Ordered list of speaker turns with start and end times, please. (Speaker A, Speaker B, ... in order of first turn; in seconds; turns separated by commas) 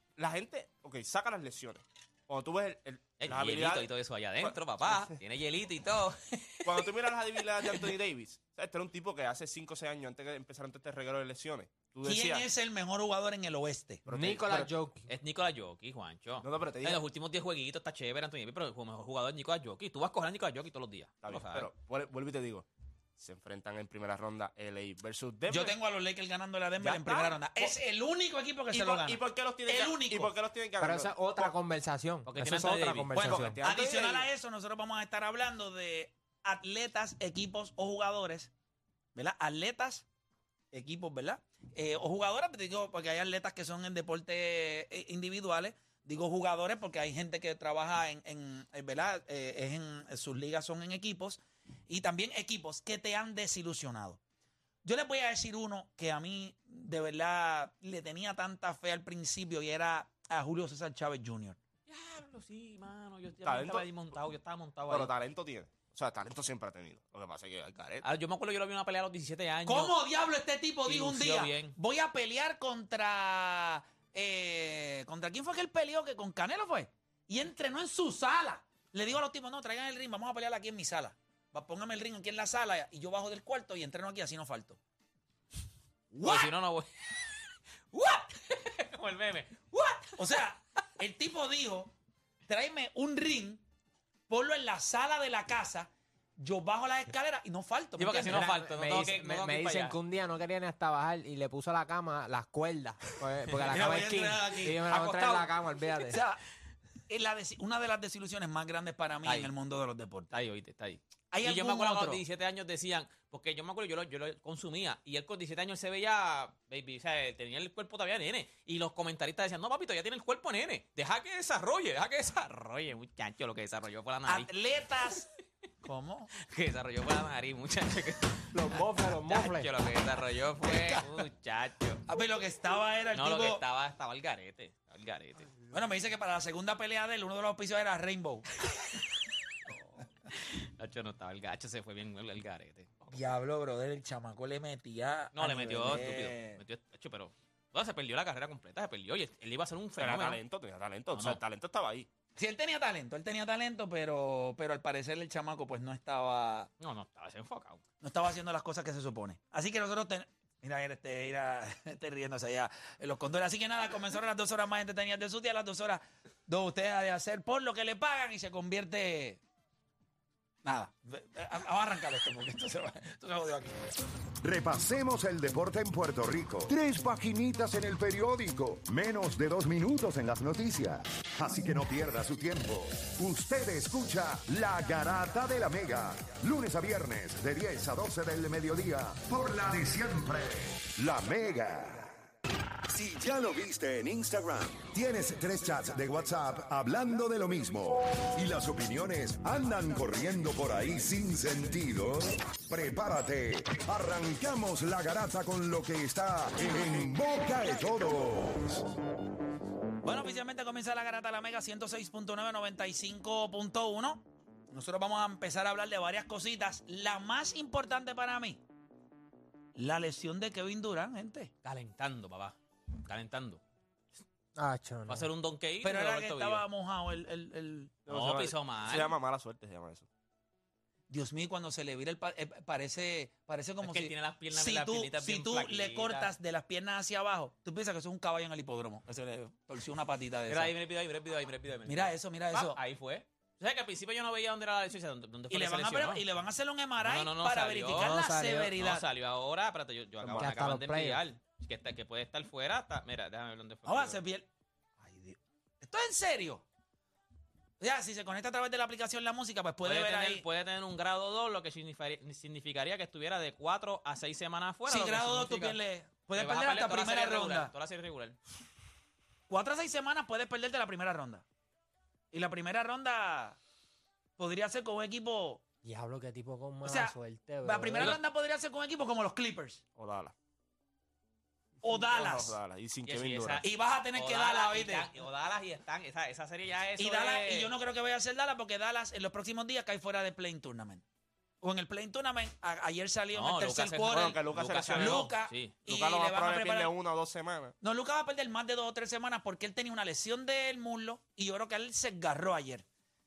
Speaker A: 0.2-3.9, Speaker B: 3.2-6.9, Speaker A: 4.4-5.2, Speaker A: 6.7-12.5, Speaker B: 7.6-7.9, Speaker C: 12.1-14.1, Speaker A: 14.1-14.7, Speaker D: 14.1-15.1, Speaker B: 15.1-21.7, Speaker A: 16.4-17.0, Speaker A: 21.2-22.7, Speaker A: 23.2-25.8, Speaker C: 25.5-30.3, Speaker A: 26.8-27.7, Speaker A: 28.7-31.5, Speaker D: 30.8-33.6, Speaker B: 32.3-33.1, Speaker C: 33.1-38.5, Speaker A: 33.2-34.3, Speaker C: 39.1-40.0, Speaker C: 40.7-54.2, Speaker C: 54.8-61.6, Speaker B: 61.9-65.1, Speaker A: 63.4-63.9, Speaker A: 64.9-68.1, Speaker B: 68.0-69.9, Speaker C: 69.7-84.8, Speaker B: 70.9-71.8, Speaker C: 86.1-86.5, Speaker B: 86.2-90.4, Speaker C: 90.2-91.9, Speaker C: 92.5-93.6, Speaker C: 94.3-98.4, Speaker B: 98.0-100.0, Speaker D: 98.3-106.2, Speaker C: 103.6-105.4, Speaker C: 106.1-106.4, Speaker C: 107.1-110.3, Speaker B: 109.2-109.5, Speaker B: 110.3-124.5, Speaker C: 111.3-112.2, Speaker C: 124.3-125.3, Speaker C: 125.8-126.3, Speaker B: 126.4-128.5, Speaker D: 128.5-129.7, Speaker B: 129.3-132.0, Speaker C: 130.6-131.3, Speaker C: 132.1-133.6, Speaker B: 133.1-135.5, Speaker C: 135.7-138.6, Speaker B: 140.3-143.2, Speaker C: 143.1-146.6, Speaker B: 145.3-150.4, Speaker A: 150.0-152.1, Speaker B: 151.1-151.4, Speaker C: 152.4-156.7, Speaker B: 156.8-157.8, Speaker C: 158.0-169.4, Speaker C: 170.6-173.8, Speaker E: 174.4-192.1, Speaker E: 192.9-208.8, Speaker C: 210.0-218.6, Speaker C: 219.8-221.5, Speaker B: 221.6-223.6, Speaker D: 224.6-225.3, Speaker B: 225.1-226.7, Speaker C: 225.8-228.0, Speaker A: 228.1-230.1, Speaker B: 228.1-229.2, Speaker C: 231.1-240.7, Speaker B: 233.8-236.3, Speaker B: 240.5-246.2, Speaker C: 241.9-242.8, Speaker C: 245.5-249.1, Speaker B: 247.0-254.2, Speaker D: 248.2-248.7, Speaker A: 250.2-250.5, Speaker D: 250.4-251.2, Speaker C: 253.9-254.5, Speaker C: 255.0-256.6, Speaker C: 257.8-260.4, Speaker B: 259.8-265.8, Speaker C: 264.9-267.7, Speaker B: 266.4-268.4, Speaker C: 269.5-271.4, Speaker C: 272.3-273.6, Speaker C: 274.4-275.6, Speaker D: 275.8-278.2, Speaker C: 276.9-279.8, Speaker A: 280.0-280.3, Speaker A: 281.8-283.6, Speaker C: 281.8-282.6, Speaker B: 283.1-287.7, Speaker C: 283.6-285.1, Speaker C: 287.0-291.0, Speaker C: 291.6-294.4, Speaker B: 293.3-295.8, Speaker A: 294.1-295.3, Speaker C: 294.9-296.9, Speaker A: 295.9-297.8, Speaker C: 297.8-302.9